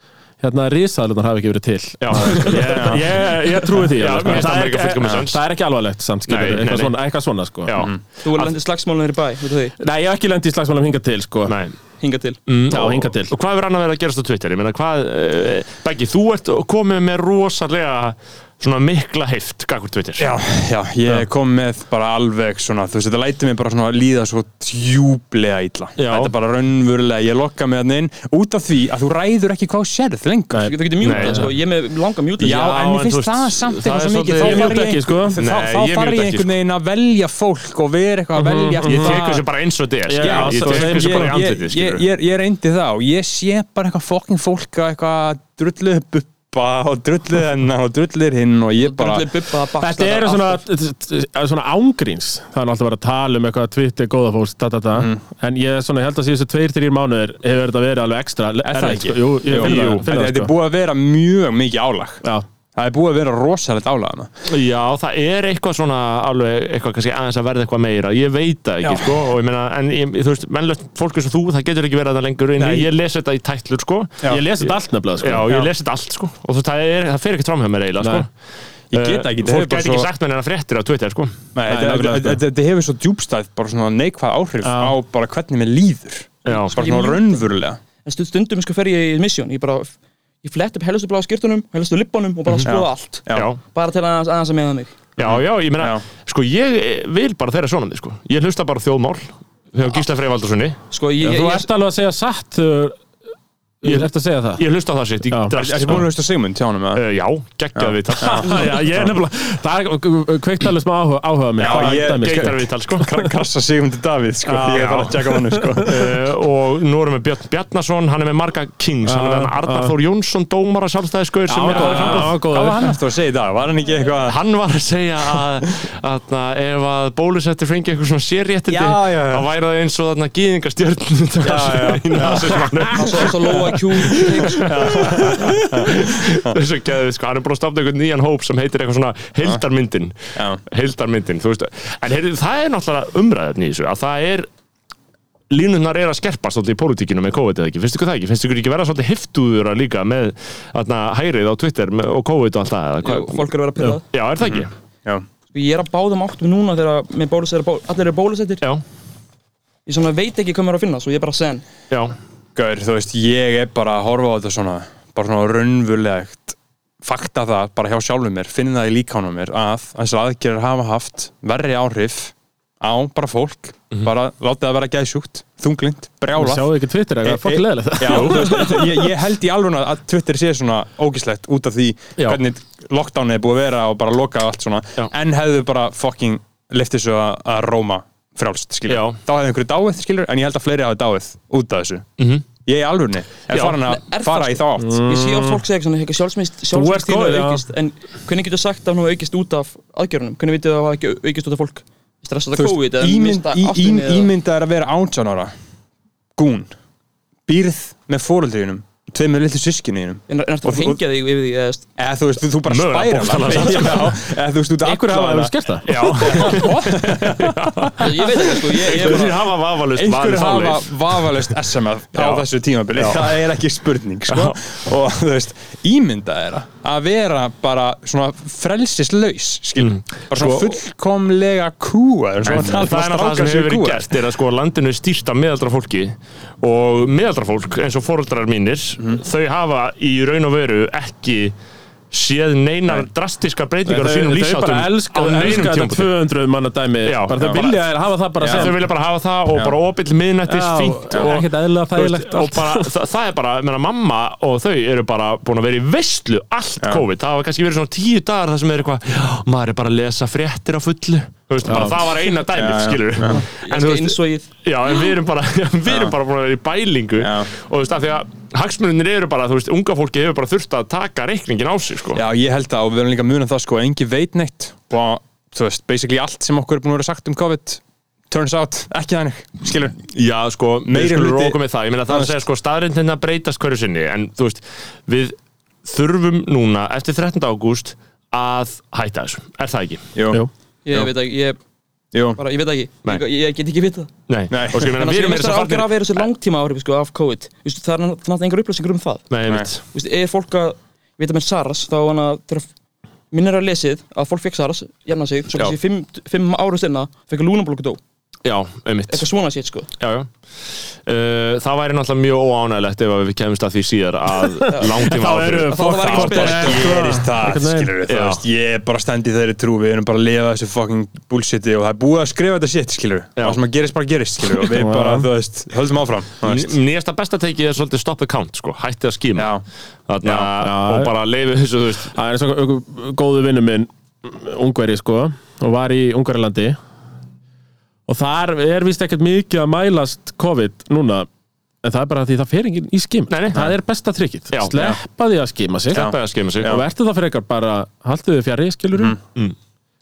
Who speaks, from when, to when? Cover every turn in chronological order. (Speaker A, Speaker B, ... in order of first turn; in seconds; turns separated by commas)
Speaker A: 0.4-7.9, Speaker B: 2.0-3.0, Speaker C: 2.5-3.1, Speaker B: 3.7-5.4, Speaker B: 6.3-7.0, Speaker B: 7.7-8.5, Speaker D: 8.2-9.8, Speaker A: 9.8-11.6, Speaker B: 11.5-11.8, Speaker D: 12.0-12.4, Speaker B: 12.5-20.3, Speaker A: 12.7-13.3, Speaker C: 20.2-30.7, Speaker B: 26.0-26.3, Speaker A: 30.5-31.5, Speaker D: 30.7-32.8, Speaker B: 31.0-31.5, Speaker C: 32.4-39.4, Speaker B: 32.4-36.5, Speaker A: 34.4-35.4, Speaker A: 38.4-39.4, Speaker B: 38.9-42.0, Speaker A: 40.1-41.5, Speaker C: 40.2-49.3, Speaker D: 48.8-50.6, Speaker A: 49.8-60.5, Speaker C: 55.0-55.2, Speaker C: 58.6-62.2, Speaker B: 59.5-60.0, Speaker C: 62.8-64.3, Speaker B: 64.5-78.3, Speaker C: 68.8-69.2, Speaker C: 72.6-72.9, Speaker A: 74.3-75.5, Speaker C: 75.5-75.7, Speaker C: 78.9-80.1, Speaker B: 78.9-81.4, Speaker C: 81.5-87.8, Speaker A: 81.7-82.4, Speaker A: 84.6-85.0, Speaker B: 86.5-86.8, Speaker D: 86.7-87.4, Speaker D: 88.0-95.0, Speaker C: 92.7-93.5, Speaker B: 93.3-93.6, Speaker B: 95.2-100.8, Speaker C: 95.2-96.0, Speaker D: 100.9-101.7, Speaker A: 101.2-103.0, Speaker A: 103.8-104.7, Speaker B: 103.8-106.1, Speaker A: 105.3-106.0, Speaker C: 105.5-107.0, Speaker B: 106.9-109.1, Speaker C: 107.8-108.5, Speaker A: 108.2-112.7, Speaker C: 111.6-116.1, Speaker B: 111.6-113.1, Speaker B: 114.5-115.2, Speaker A: 115.3-115.6, Speaker B: 115.8-122.4, Speaker A: 119.1-120.0, Speaker C: 121.5-124.4, Speaker A: 121.6-122.9, Speaker B: 124.2-133.6, Speaker C: 128.7-129.5, Speaker C: 131.4-136.6, Speaker D: 132.9-135.2, Speaker B: 134.2-144.5, Speaker C: 140.3-140.6, Speaker B: 145.5-153.4, Speaker D: 153.0-154.1, Speaker B: 154.1-154.7, Speaker C: 154.4-155.2, Speaker D: 155.5-158.6, Speaker D: 159.9-161.7, Speaker B: 161.9-162.2, Speaker C: 162.6-176.7, Speaker A: 176.3-178.8, Speaker C: 177.2-192.1, Speaker B: 188.9-189.2, Speaker B: 192.2-192.4, Speaker C: 192.7-195.0, Speaker B: 193.5-193.8, Speaker D: 193.8-204.3, Speaker A: 194.8-195.6, Speaker A: 196.7-197.6, Speaker C: 202.6-205.5, Speaker C: 206.4-206.7, Speaker C: 207.5-211.0, Speaker D: 210.3-211.9, Speaker C: 212.0-234.2, Speaker B: 212.7-214.2, Speaker A: 213.5-214.0, Speaker A: 214.8-216.7, Speaker B: 215.8-221.3, Speaker D: 218.0-219.5, Speaker B: 222.2-223.4, Speaker B: 224.3-224.6, Speaker B: 229.8-230.8, Speaker B: 232.4-241.5, Speaker B: 242.1-246.1, Speaker A: 243.9-248.8, Speaker B: 247.1-247.8, Speaker C: 247.3-247.8, Speaker C: 248.4-248.8, Speaker B: 248.5-272.2, Speaker A: 250.5-252.9, Speaker C: 251.1-251.4, Speaker A: 261.6-262.0, Speaker C: 262.5-263.4, Speaker D: 263.6-264.5, Speaker C: 265.9-266.1, Speaker C: 267.2-267.5, Speaker C: 272.1-280.0, Speaker B: 280.1-290.0, Speaker C: 280.9-282.4, Speaker C: 290.1-291.1, Speaker D: 290.9-291.6, Speaker C: 292.1-292.4, Speaker D: 292.4-294.1, Speaker B: 294.3-296.2, Speaker C: 294.5-295.0, Speaker D: 294.9-299.2, Speaker B: 299.3-299.9, Speaker D: 299.9-302.7, Speaker D: 303.3-308.0, Speaker B: 308.4-309.3, Speaker D: 309.1-309.9, Speaker B: 310.0-310.3, Speaker B: 311.1-315.7, Speaker A: 314.4-317.9, Speaker D: 314.7-315.1, Speaker D: 315.6-316.9, Speaker C: 316.0-326.8, Speaker B: 318.1-318.4, Speaker A: 324.7-325.3, Speaker B: 326.4-329.5, Speaker C: 329.4-329.6, Speaker B: 330.1-332.1, Speaker C: 330.2-330.5, Speaker A: 330.6-331.1, Speaker A: 332.1-336.8, Speaker A: 338.1-341.3, Speaker A: 341.8-349.2, Speaker B: 343.3-343.7, Speaker B: 344.5-345.0, Speaker C: 345.9-346.8, Speaker B: 345.9-346.8